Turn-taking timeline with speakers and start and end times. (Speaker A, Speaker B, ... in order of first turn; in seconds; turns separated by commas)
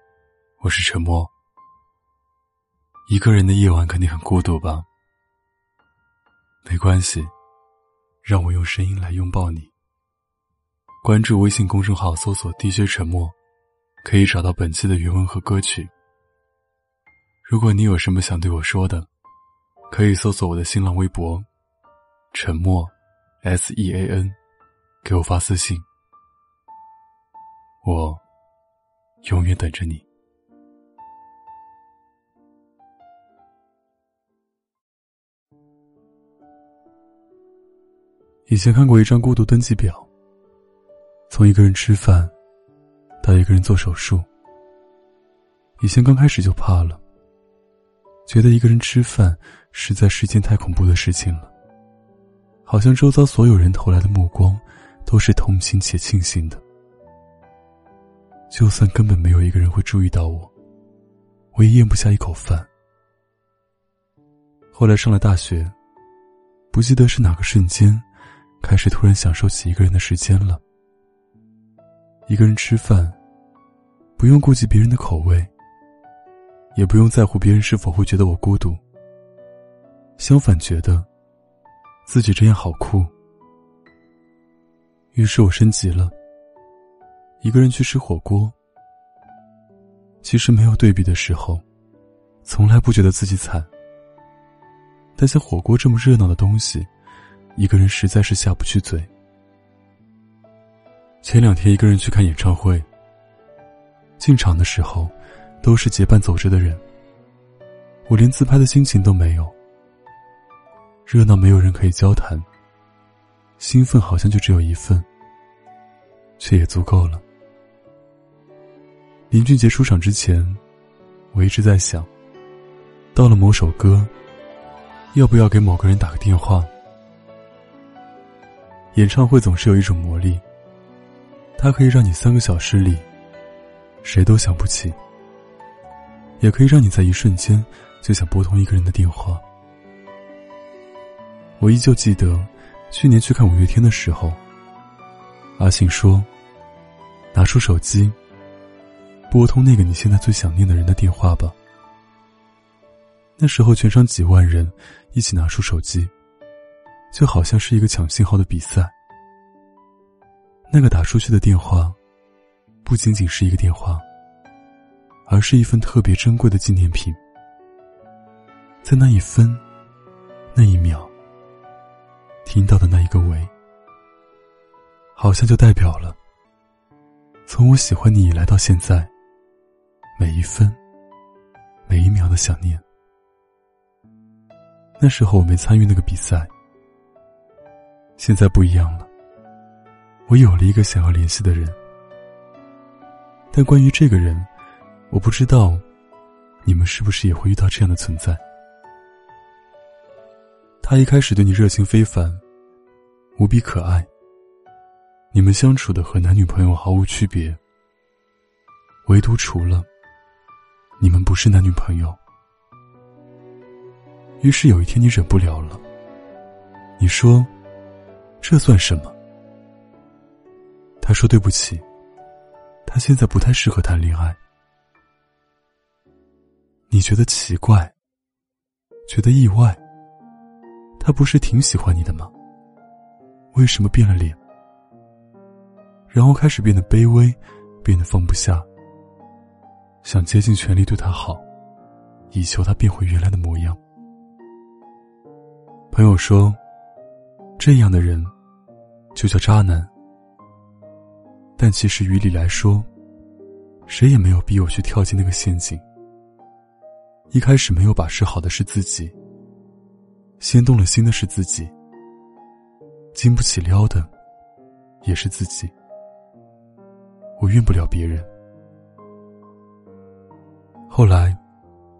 Speaker A: 0.6-1.3, Speaker A: 3.1-4.8, Speaker A: 6.6-7.3, Speaker A: 8.2-9.7, Speaker A: 11.0-13.3, Speaker A: 14.0-15.9, Speaker A: 17.4-19.1, Speaker A: 19.9-21.5, Speaker A: 22.3-24.4, Speaker A: 25.0-25.9, Speaker A: 27.8-28.2, Speaker A: 29.2-30.1, Speaker A: 38.5-40.1, Speaker A: 41.3-42.3, Speaker A: 43.2-44.3, Speaker A: 45.8-47.0, Speaker A: 48.2-51.5, Speaker A: 52.6-56.6, Speaker A: 58.5-60.5, Speaker A: 61.5-62.7, Speaker A: 64.7-65.7, Speaker A: 66.7-68.0, Speaker A: 68.6-70.6, Speaker A: 72.3-73.2, Speaker A: 74.2-75.5, Speaker A: 76.7-78.8, Speaker A: 80.2-81.1, Speaker A: 82.0-83.1, Speaker A: 85.1-86.1, Speaker A: 87.4-88.5, Speaker A: 90.2-91.6, Speaker A: 92.4-93.7, Speaker A: 95.2-96.9, Speaker A: 97.5-99.1, Speaker A: 101.2-102.9, Speaker A: 104.2-106.8, Speaker A: 108.0-109.5, Speaker A: 111.0-112.5, Speaker A: 113.6-115.0, Speaker A: 116.4-117.2, Speaker A: 119.3-120.6, Speaker A: 121.3-122.1, Speaker A: 123.1-124.1, Speaker A: 125.1-126.7, Speaker A: 128.9-130.4, Speaker A: 131.6-133.1, Speaker A: 134.0-135.0, Speaker A: 136.4-139.4, Speaker A: 141.6-144.4, Speaker A: 145.6-146.3, Speaker A: 147.3-148.2, Speaker A: 149.3-151.6, Speaker A: 153.4-156.1, Speaker A: 157.1-158.9, Speaker A: 160.7-162.0, Speaker A: 162.8-164.0, Speaker A: 165.2-167.2, Speaker A: 168.8-169.6, Speaker A: 170.5-171.1, Speaker A: 172.4-173.5, Speaker A: 175.2-176.2, Speaker A: 177.5-179.1, Speaker A: 180.2-180.8, Speaker A: 181.9-182.8, Speaker A: 185.0-186.5, Speaker A: 188.2-189.1, Speaker A: 190.3-191.8, Speaker A: 193.5-194.5, Speaker A: 195.1-195.8, Speaker A: 196.6-198.4, Speaker A: 200.8-202.4, Speaker A: 203.3-204.1, Speaker A: 205.3-207.6, Speaker A: 209.0-209.9, Speaker A: 211.0-212.2, Speaker A: 214.4-215.8, Speaker A: 217.0-217.5, Speaker A: 218.4-219.2, Speaker A: 221.0-221.8, Speaker A: 222.8-224.4, Speaker A: 226.9-227.9, Speaker A: 229.1-229.8, Speaker A: 231.0-232.3, Speaker A: 233.5-234.4, Speaker A: 236.1-238.7, Speaker A: 240.0-241.4, Speaker A: 242.3-243.8, Speaker A: 245.9-246.6, Speaker A: 247.6-248.3, Speaker A: 249.1-249.9, Speaker A: 251.6-252.9, Speaker A: 253.9-255.8, Speaker A: 257.3-259.1, Speaker A: 260.4-261.7, Speaker A: 263.1-264.1, Speaker A: 265.0-265.7, Speaker A: 267.4-268.3, Speaker A: 270.9-271.4